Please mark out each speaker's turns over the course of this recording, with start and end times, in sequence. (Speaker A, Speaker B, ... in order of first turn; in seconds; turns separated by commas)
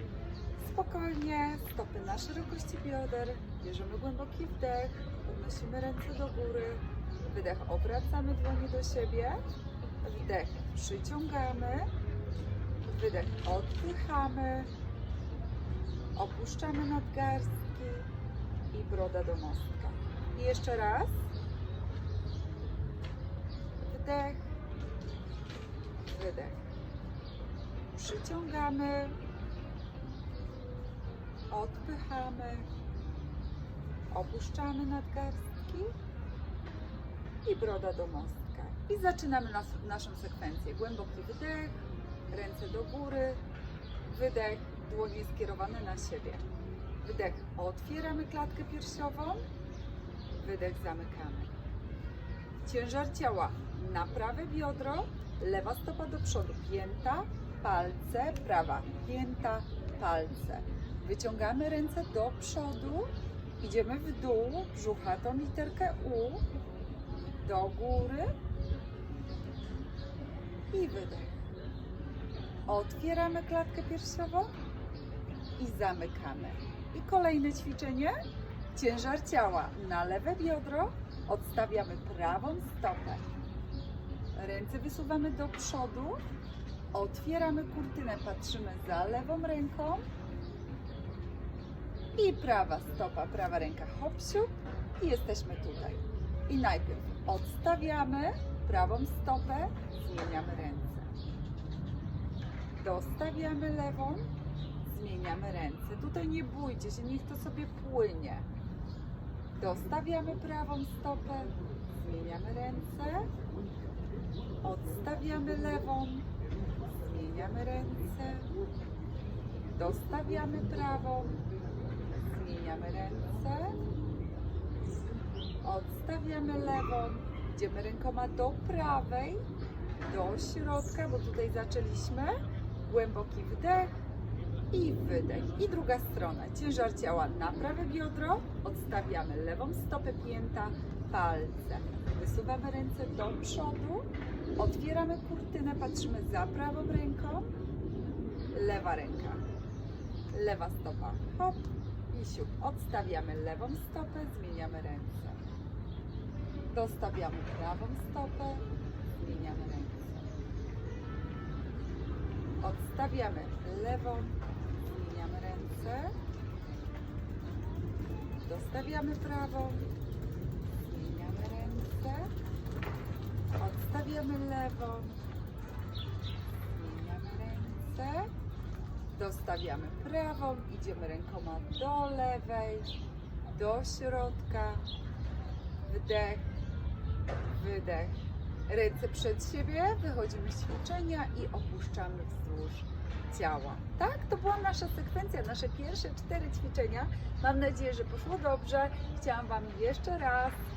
Speaker A: 0.6-9.4, Speaker A: 10.0-11.9, Speaker A: 12.9-14.7, Speaker A: 16.1-18.1, Speaker A: 18.7-21.2, Speaker A: 23.8-24.4, Speaker A: 26.1-26.6, Speaker A: 27.9-29.1, Speaker A: 31.5-32.7, Speaker A: 34.1-35.9, Speaker A: 37.4-41.8, Speaker A: 42.3-43.4, Speaker A: 44.1-46.4, Speaker A: 47.0-49.4, Speaker A: 50.4-51.5, Speaker A: 52.6-66.5, Speaker A: 67.4-68.3, Speaker A: 70.7-71.4, Speaker A: 72.7-74.5, Speaker A: 75.6-78.2, Speaker A: 78.7-83.2, Speaker A: 84.3-86.2, Speaker A: 86.9-90.0, Speaker A: 92.2-101.1, Speaker A: 102.8-104.3, Speaker A: 104.8-108.5, Speaker A: 109.6-113.3, Speaker A: 114.6-116.3, Speaker A: 116.9-118.5, Speaker A: 119.7-121.4, Speaker A: 122.2-123.8, Speaker A: 125.6-129.4, Speaker A: 130.0-133.9, Speaker A: 134.7-147.5, Speaker A: 148.5-149.4, Speaker A: 150.3-155.4, Speaker A: 156.7-160.3, Speaker A: 162.6-166.1, Speaker A: 168.4-169.9, Speaker A: 170.8-172.3, Speaker A: 173.6-175.2, Speaker A: 176.7-178.3, Speaker A: 179.1-182.9, Speaker A: 183.5-184.8, Speaker A: 185.9-186.5, Speaker A: 187.5-188.2, Speaker A: 188.7-200.6